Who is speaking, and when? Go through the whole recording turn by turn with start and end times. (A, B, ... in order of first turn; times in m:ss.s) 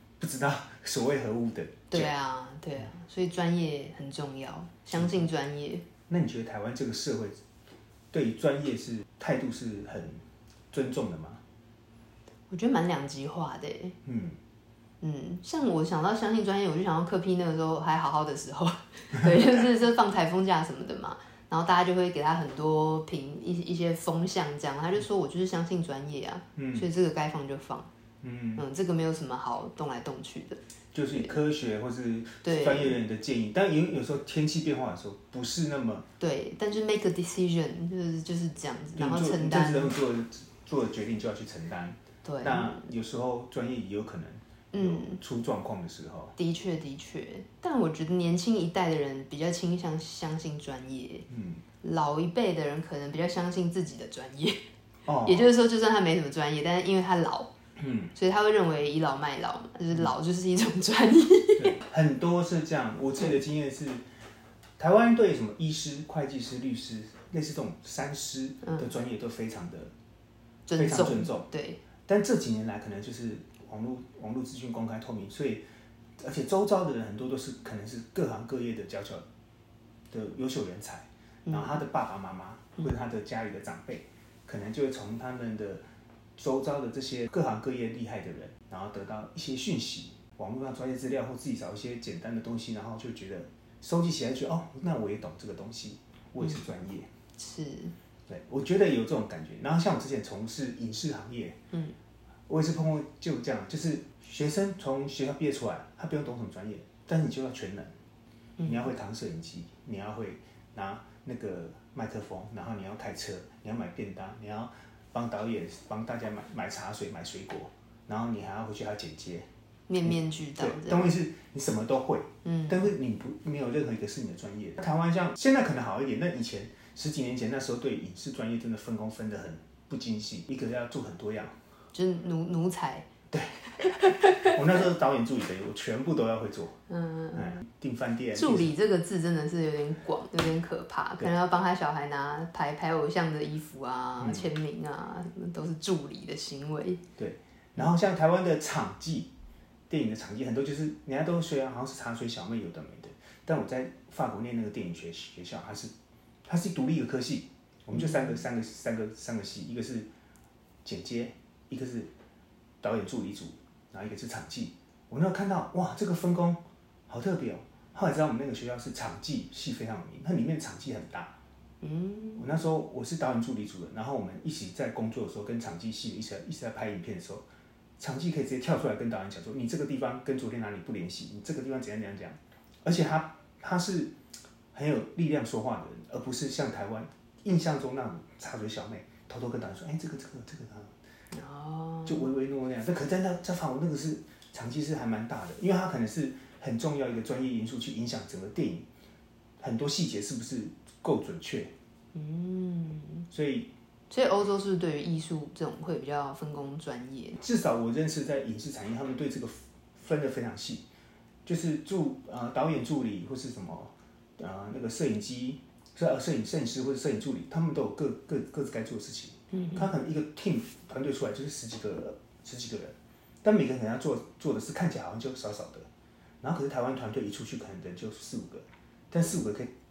0:00.2-0:02.1 A
0:01.9-0:05.8 B
0:04.9-0:05.3 A
0:06.1-0:07.4 A
0:08.1-0:10.2 A
0:10.7-0:11.4 A
0:12.5-0:14.0 B
0:14.0-0:14.4 A
0:15.0-0:27.9 B
0:26.6-0:26.9 A
0:28.2-0:28.6 A
0:28.6-0:30.6 B
0:30.9-0:36.1 A
0:32.4-0:33.0 B
0:36.2-0:39.9 B
0:39.0-0:46.4 A
0:42.2-0:42.8 B
0:44.7-0:45.2 B
0:46.4-0:51.2 B
0:51.3-0:51.6 A
0:51.8-0:54.6 B
0:55.0-0:55.5 A
0:55.2-0:57.5 B
0:57.8-0:58.1 A
0:58.1-1:01.8 B
1:01.6-1:04.0 A
1:04.8-1:09.9 A
1:10.7-1:11.8 B
1:10.8-1:11.5 A
1:12.0-1:15.6 A
1:16.2-1:19.2 A
1:20.1-1:25.8 A
1:21.5-1:21.8 B
1:26.4-1:37.1 A
1:37.4-1:37.9 B
1:38.3-1:41.6 A
1:42.5-1:47.9 A
1:48.6-1:48.9 B
1:48.6-1:59.5 A
1:59.9-2:01.1 B
2:00.0-2:11.5 A
2:02.4-2:02.8 B
2:11.9-2:13.1 B
2:13.3-2:16.8 A
2:14.0-2:14.6 B
2:16.9-2:17.6 B
2:17.3-2:18.7 A
2:18.3-2:27.0 B
2:24.2-2:24.5 A
2:27.2-2:29.3 A
2:29.9-2:35.9 A
2:36.4-2:40.1 A
2:37.9-2:38.4 B
2:40.8-2:42.1 A
2:42.8-2:51.3 A
2:51.8-2:52.5 B
2:52.4-2:57.4 A
2:58.0-3:04.1 A
3:04.7-3:10.9 A
3:11.3-3:12.3 B
3:12.0-3:18.9 A
3:19.6-3:21.7 A
3:22.1-3:23.3 B
3:23.3-3:23.7 A
3:24.1-3:27.4 B
3:27.4-3:30.8 A
3:31.4-3:45.9 A
3:46.4-3:49.7 A